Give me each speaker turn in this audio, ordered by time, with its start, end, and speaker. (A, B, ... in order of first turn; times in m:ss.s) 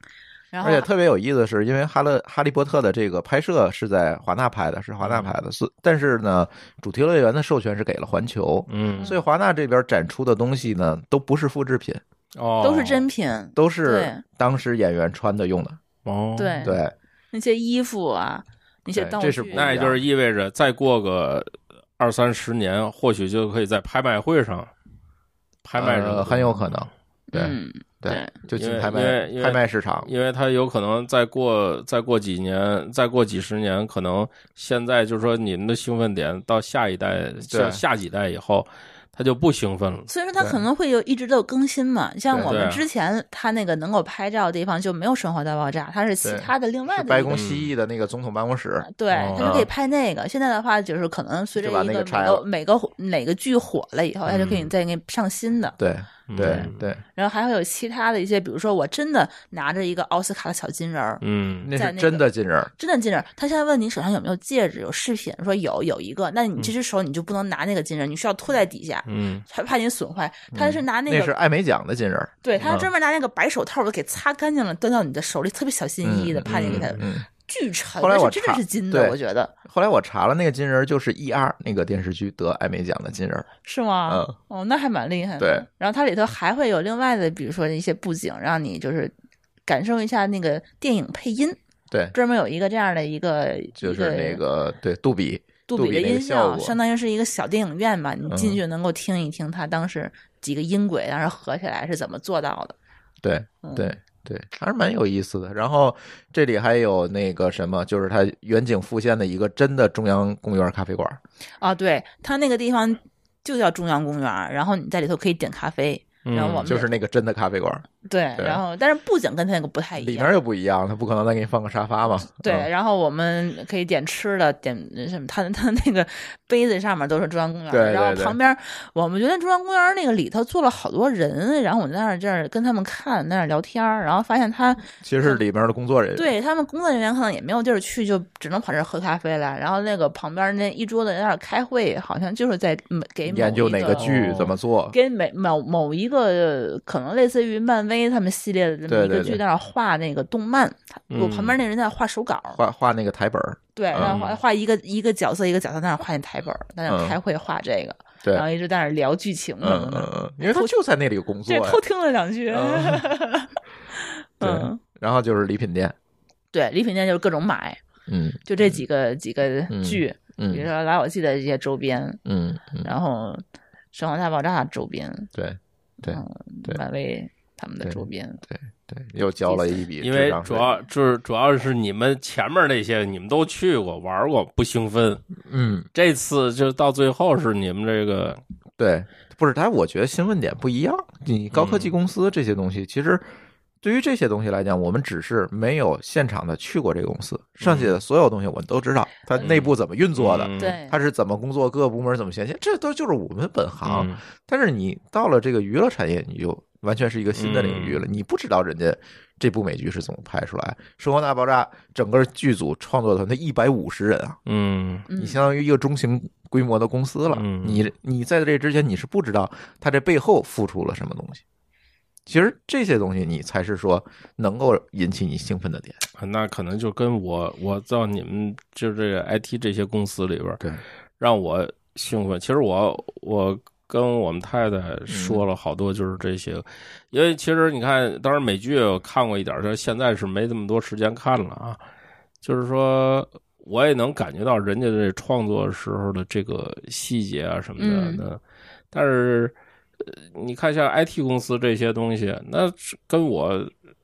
0:00.5-0:00.9 A
0:00.6-0:12.0 B
0:05.0-0:05.3 C
0:08.7-0:09.1 C
0:12.4-0:13.0 C
0:12.6-0:14.2 A
0:13.6-0:15.8 B
0:16.0-0:16.7 C
0:16.4-0:16.8 A
0:16.6-0:16.9 B
0:17.3-0:19.7 A
0:18.9-0:20.0 B
0:19.5-0:24.7 C
0:25.6-0:26.7 C
0:25.8-0:30.1 B
0:27.3-0:28.3 A
0:28.5-0:40.1 C
0:37.5-0:37.8 B
0:40.1-0:47.4 A
0:42.3-0:42.6 B
0:42.5-0:42.8 C
0:46.2-0:49.7 B
0:47.3-0:47.7 C
0:48.8-0:55.8 A
0:49.1-0:49.6 C
0:51.6-0:52.4 B
0:54.3-0:54.7 C
0:55.8-0:57.0 B
0:56.3-0:56.9 C
0:56.4-1:01.2 A
1:01.2-1:01.7 C
1:01.6-1:02.7 B
1:01.7-1:02.2 A
1:02.8-1:11.4 A
1:09.1-1:09.4 C
1:10.5-1:12.9 B
1:12.4-1:19.5 A
1:16.0-1:17.3 B
1:16.5-1:17.0 C
1:18.0-1:23.5 B
1:23.6-1:29.1 A
1:24.1-1:24.4 B
1:25.4-1:25.7 B
1:29.7-1:31.6 A
1:32.1-1:34.4 A
1:33.8-1:36.8 B
1:35.7-1:42.8 A
1:38.3-1:38.6 B
1:43.2-1:51.2 B
1:43.6-1:44.0 A
1:51.6-1:56.9 A
1:56.3-1:56.7 C
1:56.6-1:58.6 B
1:58.0-2:00.3 A
2:00.0-2:02.7 B
2:02.4-2:15.4 A
2:07.7-2:08.4 B
2:15.0-2:16.3 B
2:16.2-2:24.1 A
2:23.3-2:25.0 B
2:23.9-2:24.5 C
2:24.9-2:32.6 A
2:28.9-2:29.4 B
2:31.1-2:31.6 C
2:32.6-2:34.2 B
2:33.8-2:40.7 A
2:34.0-2:34.4 C
2:36.9-2:37.2 B
2:39.6-2:41.8 B
2:41.5-2:44.8 A
2:42.5-2:43.0 B
2:44.4-2:46.0 B
2:46.5-2:47.8 A
2:48.1-2:48.8 B
2:48.5-2:52.2 A
2:49.7-2:50.7 B
2:52.3-2:52.9 B
2:52.8-2:55.3 A
2:55.4-2:56.8 B
2:56.0-2:58.4 A
2:57.8-3:00.7 B
2:59.4-2:59.8 A
3:00.0-3:05.2 C
3:05.4-3:05.9 B
3:05.9-3:08.4 C
3:08.8-3:13.3 B
3:11.5-3:11.9 C
3:13.8-3:34.4 B
3:17.6-3:18.0 C
3:19.4-3:20.8 C
3:20.6-3:21.0 A
3:23.8-3:24.2 C
3:27.4-3:28.0 C
3:34.5-3:35.1 C
3:35.1-3:35.4 A
3:35.2-3:41.4 B
3:37.3-3:37.8 C
3:42.3-3:46.0 B
3:46.2-3:50.6 C
3:51.2-4:01.8 C
3:55.1-3:55.4 B
4:02.4-4:08.4 C
4:07.8-4:08.2 A
4:08.9-4:13.7 C